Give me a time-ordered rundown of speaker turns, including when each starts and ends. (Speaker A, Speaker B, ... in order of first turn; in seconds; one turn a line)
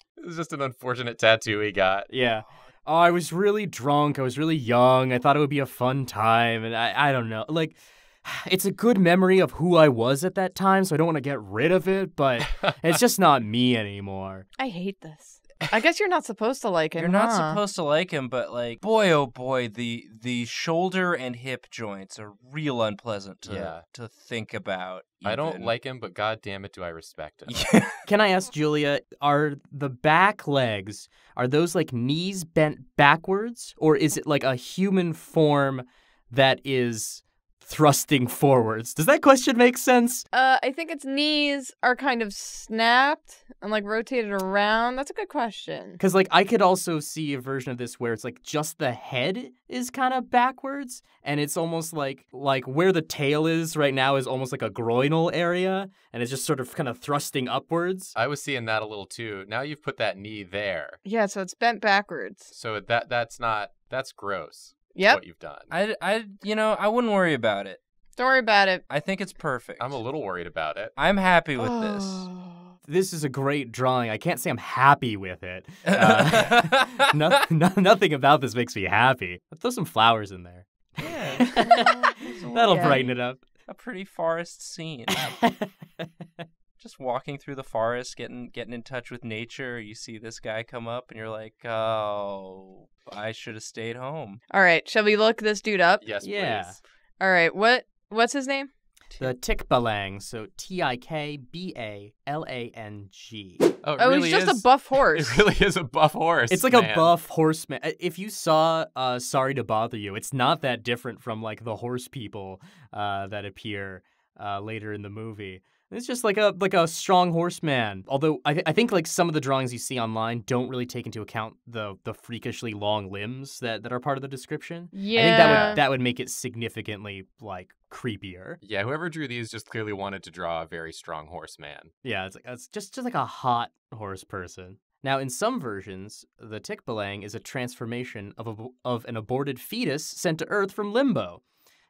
Speaker A: 0.2-2.1
Speaker B: 2.1-14.5
Speaker C: 14.6-17.6
Speaker D: 17.0-25.7
Speaker A: 23.4-23.8
Speaker A: 25.2-27.7
Speaker D: 27.5-28.0
Speaker B: 28.1-40.2
Speaker C: 40.3-46.0
Speaker B: 46.0-58.1
Speaker A: 58.1-61.0
Speaker C: 61.0-62.5
Speaker A: 62.5-65.7
Speaker C: 64.9-65.2
Speaker D: 65.7-67.8
Speaker C: 68.2-68.8
Speaker D: 68.9-70.0
Speaker A: 69.8-70.9
Speaker D: 71.0-72.3
Speaker C: 71.6-72.7
Speaker B: 72.9-83.4
Speaker D: 75.9-77.0
Speaker D: 81.0-83.1
Speaker C: 81.6-83.1
Speaker D: 83.7-85.3
Speaker B: 85.3-86.1
Speaker D: 86.8-94.4
Speaker C: 94.5-96.0
Speaker A: 96.0-96.8
Speaker B: 96.2-96.8
Speaker C: 97.2-98.7
Speaker B: 99.2-103.7
Speaker A: 103.8-107.1
Speaker C: 104.0-105.4
Speaker B: 106.5-128.6
Speaker C: 124.9-125.8
Speaker A: 125.4-125.8
Speaker A: 128.6-131.9
Speaker B: 132.0-141.4